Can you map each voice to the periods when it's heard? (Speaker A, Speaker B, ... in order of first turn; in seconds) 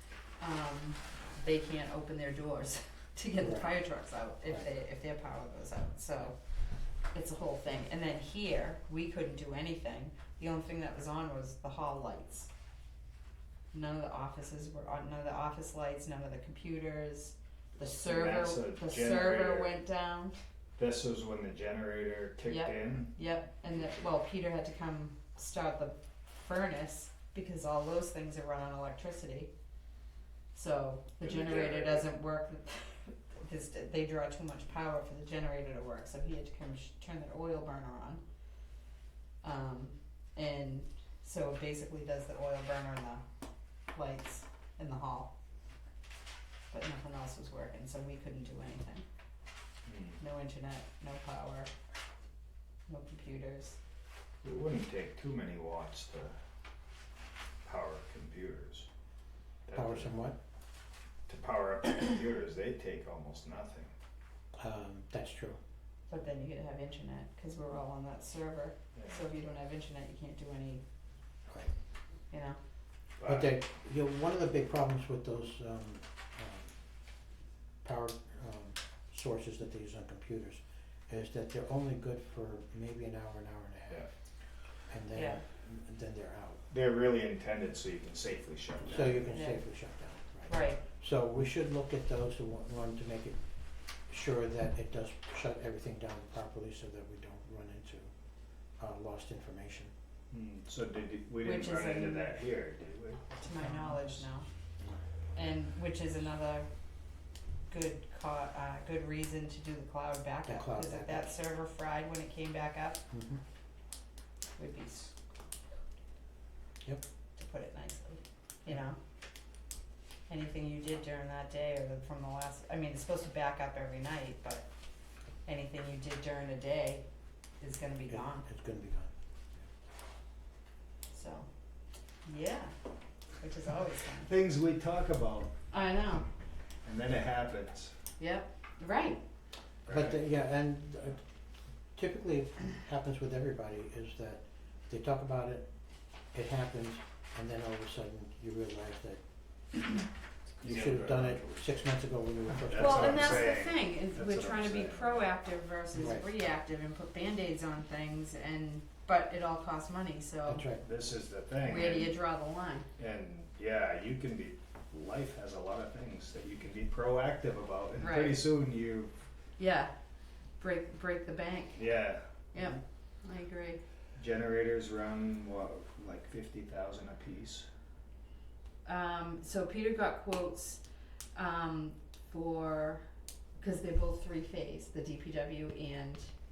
Speaker A: 0.4-6.4, 7.1-12.5, 13.7-20.4, 22.4-29.5, 30.5-38.2, 39.4-43.2, 43.9-45.3, 46.7-49.0, 50.2-51.7, 52.9-53.8, 66.1-70.8, 72.3-72.6, 85.1-85.4, 89.3-89.6, 90.5-90.8, 101.4-102.3, 103.4-104.5, 105.3-106.7, 107.7-113.0, 114.6-115.1, 117.3-119.0, 120.3-124.7, 125.4-127.0, 127.6-128.4, 131.1-131.5, 132.2-132.7, 133.4-134.3, 135.7-136.2, 138.2-139.2, 152.7-160.7, 161.6-162.9, 168.0-168.4, 169.6-169.9, 170.6-171.8, 172.5-173.8, 178.8-180.8, 181.3-183.0, 183.6-186.3
Speaker B: 3.4-3.7, 59.7-60.4, 64.5-65.6, 71.5-71.7, 73.2-76.7, 77.8-84.1, 84.9-86.7, 88.8-93.4, 94.1-98.1, 98.8-99.9, 110.5-111.3, 113.1-113.4, 128.1-129.1, 139.9-141.2, 141.9-145.7, 146.3-149.2, 150.6-153.5, 155.9-156.3, 160.5-160.8
Speaker C: 17.8-19.8, 20.8-23.1, 31.2-32.1, 49.9-50.2, 54.4-56.3, 57.6-58.9, 59.7-60.1, 61.3-63.9, 68.9-69.2, 73.2-73.5, 86.7-89.3, 100.3-104.2, 134.2-135.5, 136.8-137.9, 139.8-140.2, 150.6-151.7, 152.5-155.3, 160.8-162.2, 163.0-169.1, 171.8-172.2, 174.2-177.7